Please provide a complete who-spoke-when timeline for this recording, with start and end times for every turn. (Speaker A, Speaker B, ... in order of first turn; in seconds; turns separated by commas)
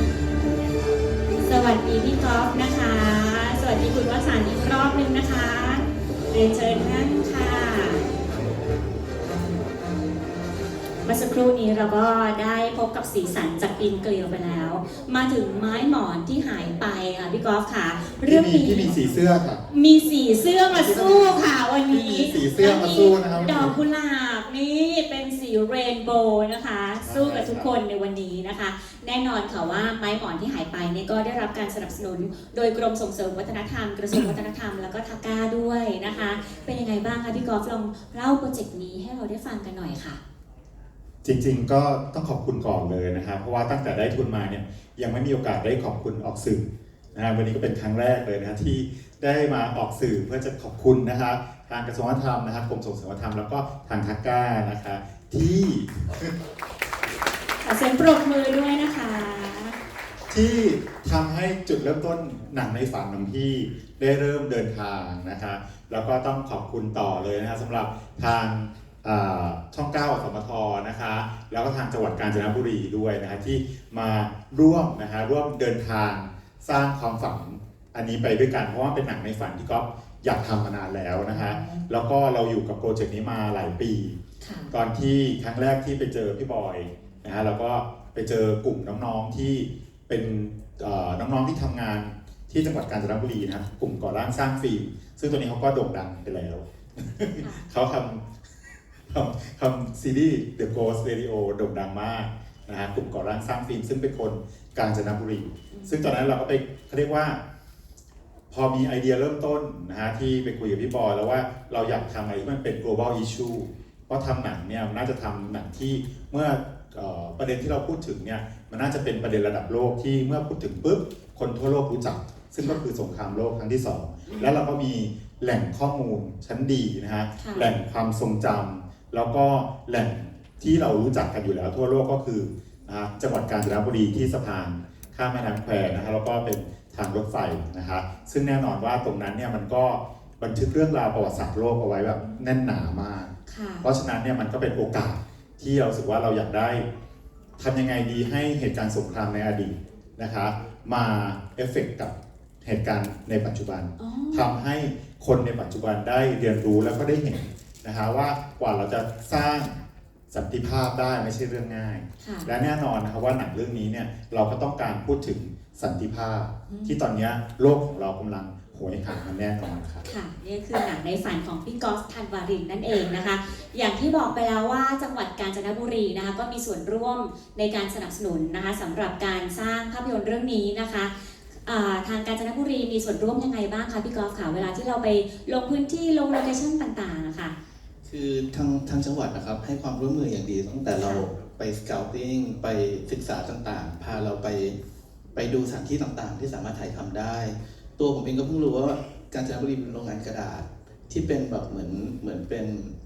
Speaker A: 1.4-8.1, Speaker A: 11.1-18.9, Speaker B: 18.3-19.6, Speaker A: 19.7-40.2, Speaker B: 20.7-23.8, Speaker B: 27.0-27.7, Speaker B: 41.2-46.6, Speaker B: 47.1-56.3, Speaker A: 57.6-59.8, Speaker B: 60.3-84.2, Speaker A: 81.3-81.8, Speaker A: 84.4-84.7, Speaker B: 84.7-98.2, Speaker B: 99.1-107.4, Speaker A: 105.7-106.1, Speaker B: 108.5-143.3, Speaker A: 127.4-127.7, Speaker A: 143.5-143.9, Speaker B: 143.8-146.8, Speaker B: 147.6-159.8, Speaker A: 154.0-154.5, Speaker B: 160.3-170.0, Speaker A: 162.2-162.5, Speaker A: 166.7-167.0, Speaker A: 170.1-187.6, Speaker C: 188.1-194.8, Speaker A: 190.9-191.2, Speaker C: 195.3-202.9